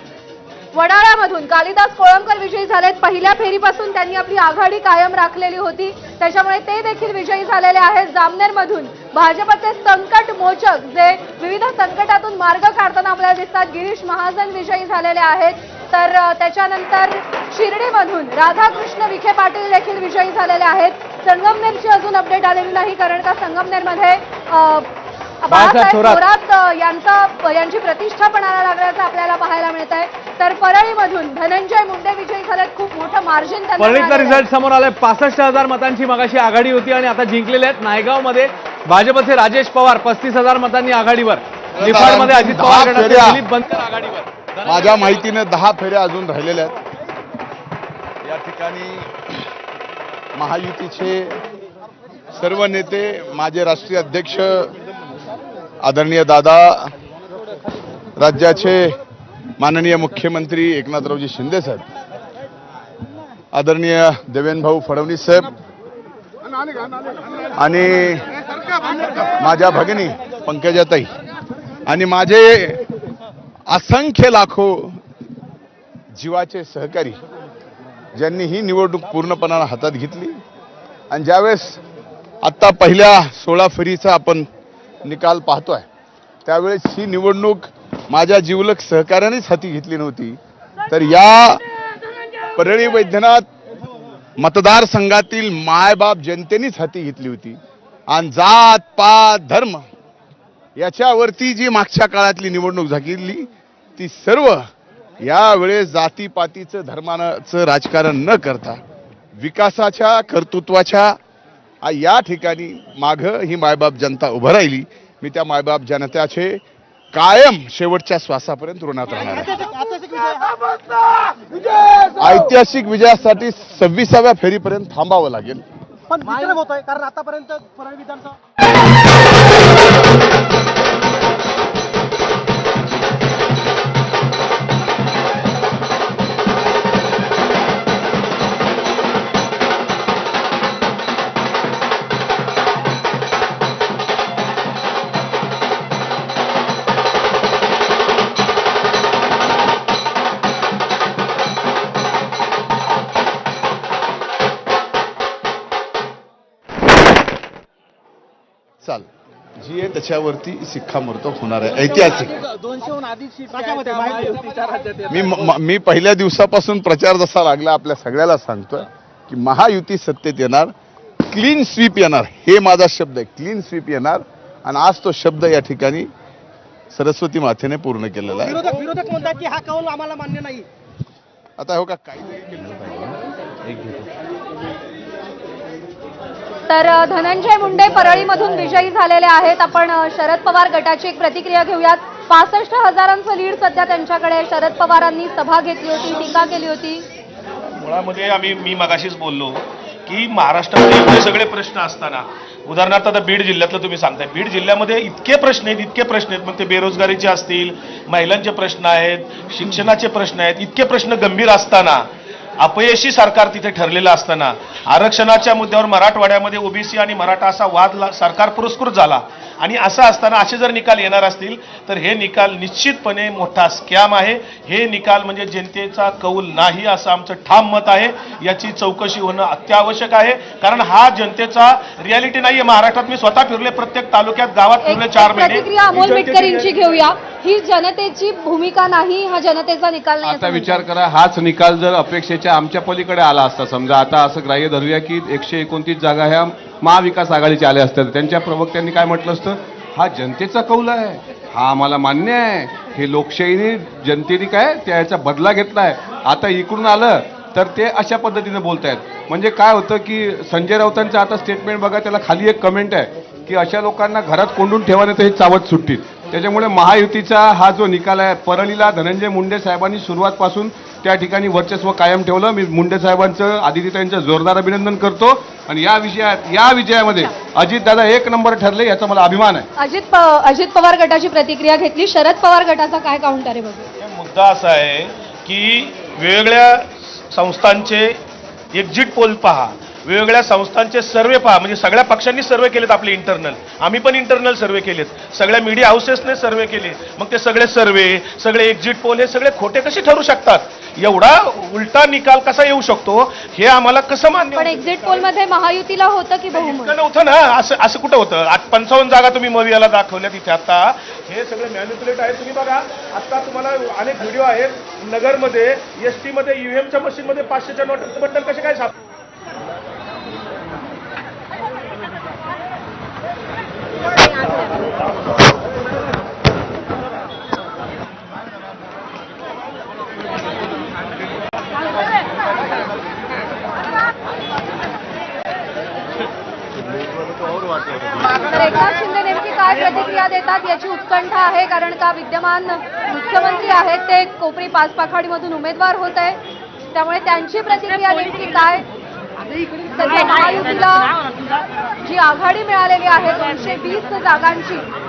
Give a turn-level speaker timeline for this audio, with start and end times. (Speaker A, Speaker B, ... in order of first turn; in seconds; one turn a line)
Speaker A: 0.7-24.9
Speaker A: 25.4-34.5
Speaker B: 25.5-26.2
Speaker B: 33.8-44.2
Speaker C: 41.8-43.4
Speaker C: 44.6-46.8
Speaker C: 48.2-49.5
Speaker C: 50.4-51.4
Speaker C: 52.3-54.7
Speaker C: 55.8-56.9
Speaker C: 58.2-59.0
Speaker C: 59.6-61.8
Speaker C: 63.5-65.5
Speaker C: 67.5-68.3
Speaker C: 69.1-71.1
Speaker C: 71.9-72.8
Speaker C: 73.7-75.0
Speaker C: 76.2-77.2
Speaker C: 78.2-80.4
Speaker C: 81.1-81.8
Speaker C: 82.4-84.5
Speaker C: 85.0-85.9
Speaker C: 86.5-91.6
Speaker C: 92.5-93.5
Speaker C: 94.4-97.6
Speaker C: 98.1-99.9
Speaker C: 100.8-104.6
Speaker C: 105.2-108.8
Speaker C: 109.4-111.2
Speaker C: 111.8-116.6
Speaker C: 117.1-119.6
Speaker D: 119.5-120.5
Speaker C: 122.1-125.6
Speaker D: 126.1-128.3
Speaker C: 158.8-159.1
Speaker C: 159.6-162.3
Speaker B: 162.6-165.1
Speaker D: 163.9-164.3
Speaker C: 165.1-170.7
Speaker C: 171.2-176.1
Speaker C: 176.9-178.7
Speaker D: 178.5-180.7
Speaker C: 181.6-183.2
Speaker E: 183.7-184.1
Speaker A: 186.7-197.1
Speaker F: 197.8-212.1
Speaker F: 212.6-237.0
Speaker A: 234.8-240.9
Speaker E: 240.2-279.7
Speaker A: 279.8-283.9
Speaker F: 284.0-288.2
Speaker F: 288.7-305.3
Speaker A: 304.6-307.0
Speaker F: 306.5-318.9
Speaker A: 338.4-346.4
Speaker A: 346.9-348.9
Speaker A: 349.8-351.2
Speaker A: 352.0-354.9